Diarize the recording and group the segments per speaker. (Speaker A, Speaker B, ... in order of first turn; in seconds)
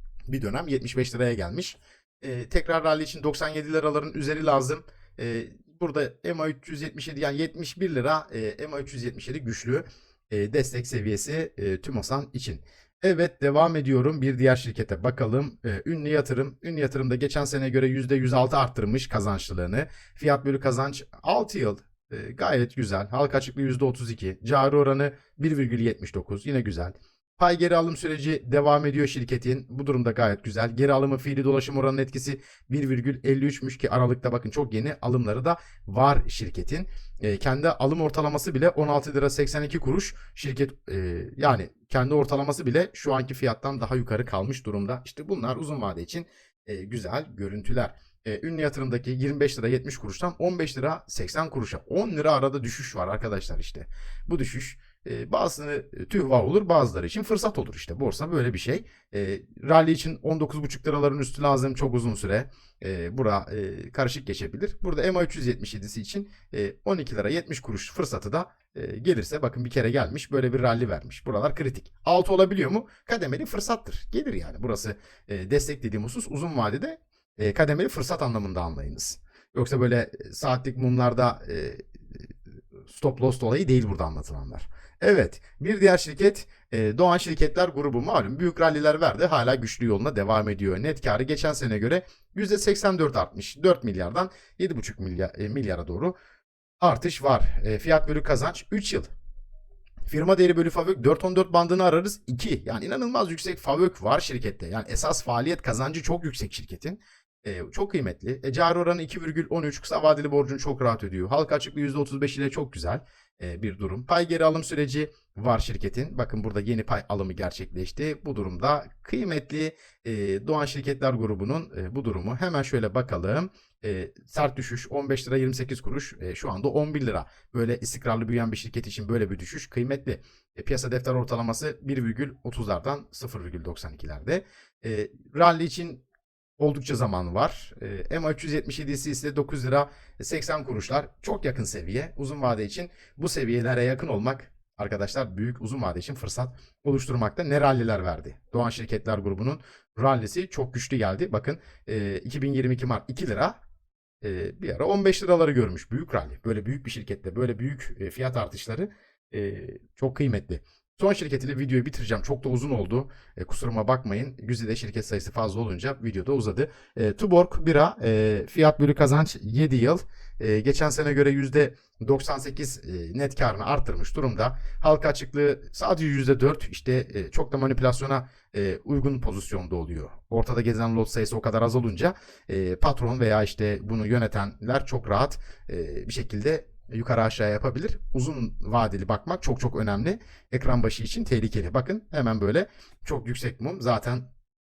Speaker A: 0.3-82.3, 82.9-96.1, 96.8-99.1, 100.1-136.0, 136.6-153.6, 154.2-194.2